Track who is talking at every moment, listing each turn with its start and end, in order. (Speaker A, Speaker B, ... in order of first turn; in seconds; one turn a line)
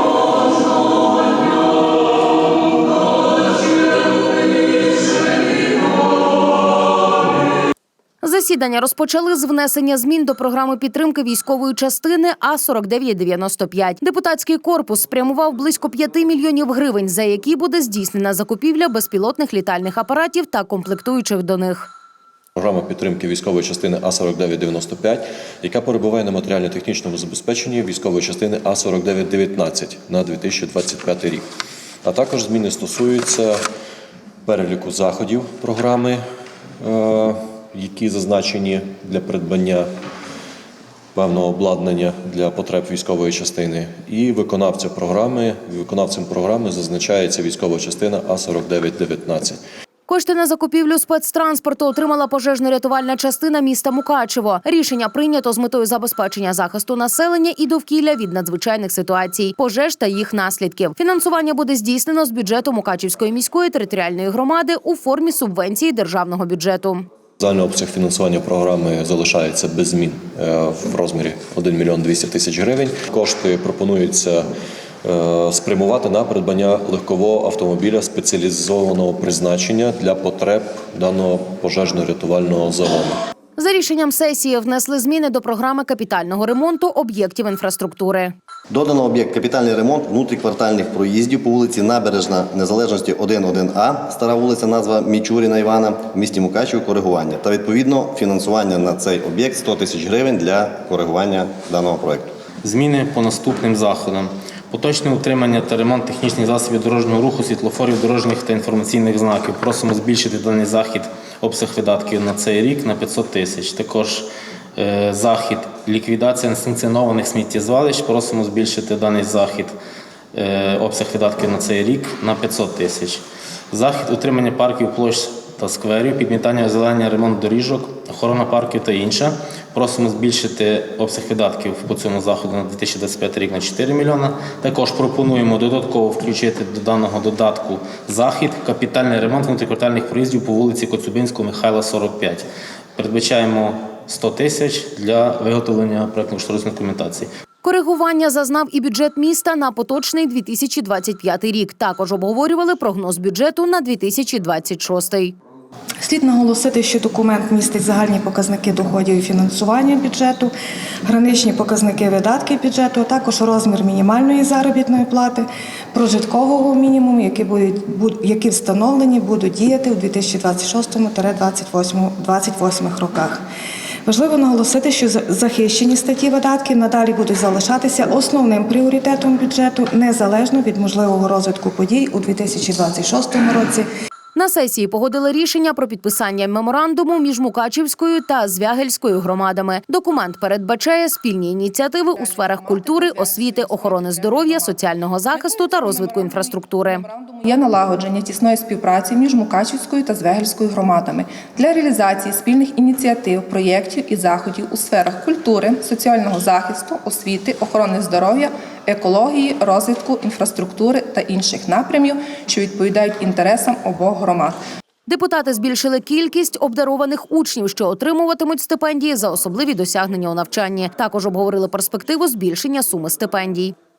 Speaker A: 8.2-21.9
Speaker B: 22.6-31.4
Speaker B: 32.0-33.6
Speaker B: 34.5-36.2
Speaker B: 36.8-39.9
Speaker B: 41.1-49.6
Speaker A: 50.1-67.0
Speaker B: 67.4-74.4
Speaker B: 75.0-83.2
Speaker A: 83.6-88.3
Speaker C: 88.7-102.3
Speaker D: 102.6-119.7
Speaker D: 120.3-142.4
Speaker D: 143.0-147.3
Speaker A: 147.6-155.3
Speaker E: 156.0-160.5
Speaker E: 161.1-173.4
Speaker E: 174.0-183.9
Speaker A: 184.3-197.0
Speaker F: 192.1-214.6
Speaker A: 215.1-223.7